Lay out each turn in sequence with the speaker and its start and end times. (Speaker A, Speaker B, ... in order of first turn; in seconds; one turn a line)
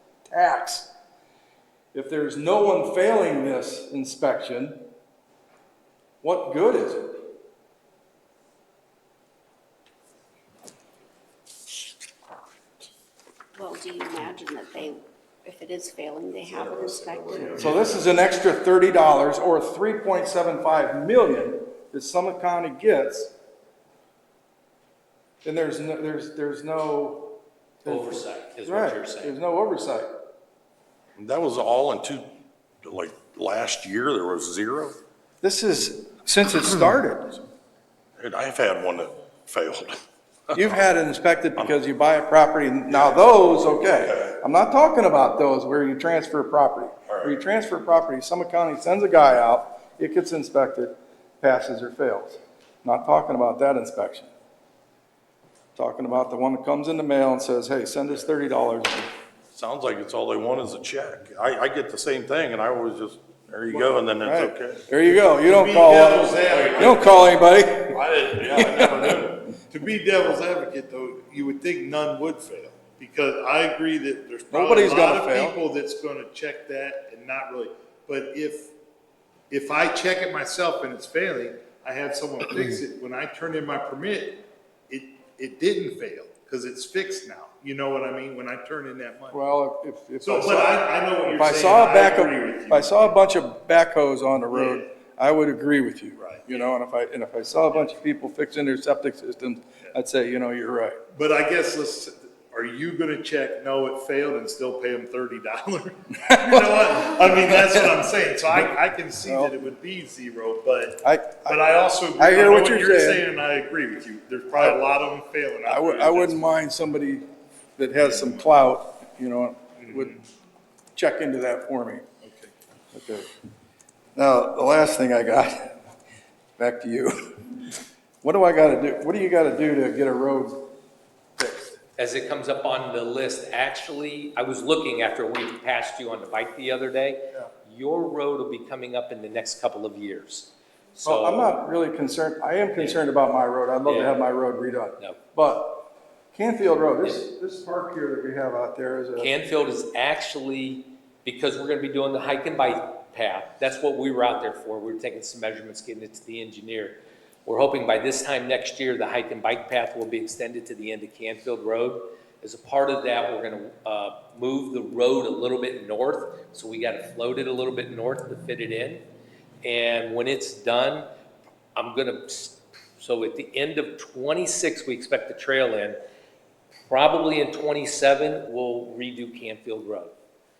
Speaker A: 0.3-0.9
Speaker A: 1.9-4.8
Speaker A: 6.2-7.2
Speaker B: 13.5-17.6
Speaker C: 16.5-18.1
Speaker A: 17.6-23.3
Speaker A: 25.4-30.1
Speaker D: 27.9-29.4
Speaker C: 31.2-35.0
Speaker A: 35.4-37.4
Speaker C: 38.2-40.0
Speaker A: 40.5-54.3
Speaker A: 55.8-59.1
Speaker C: 59.5-64.9
Speaker A: 63.7-69.3
Speaker E: 65.4-67.1
Speaker C: 66.5-67.0
Speaker C: 67.9-69.4
Speaker E: 69.7-78.7
Speaker A: 74.5-75.6
Speaker E: 79.5-89.4
Speaker A: 89.3-101.0
Speaker E: 90.2-93.1
Speaker E: 94.5-94.8
Speaker E: 96.2-96.6
Speaker E: 101.1-116.5
Speaker A: 109.2-109.5
Speaker A: 111.0-111.6
Speaker A: 112.2-113.2
Speaker A: 115.7-117.2
Speaker A: 117.8-120.2
Speaker E: 118.1-118.4
Speaker A: 120.9-122.0
Speaker A: 122.9-123.3
Speaker A: 124.2-125.8
Speaker A: 126.6-127.6
Speaker A: 128.2-130.7
Speaker A: 131.4-131.8
Speaker D: 132.0-141.5
Speaker A: 141.0-149.3
Speaker D: 142.8-143.0
Speaker D: 143.8-144.2
Speaker D: 149.2-169.0
Speaker D: 169.6-171.1
Speaker D: 171.7-176.0
Speaker D: 176.9-180.1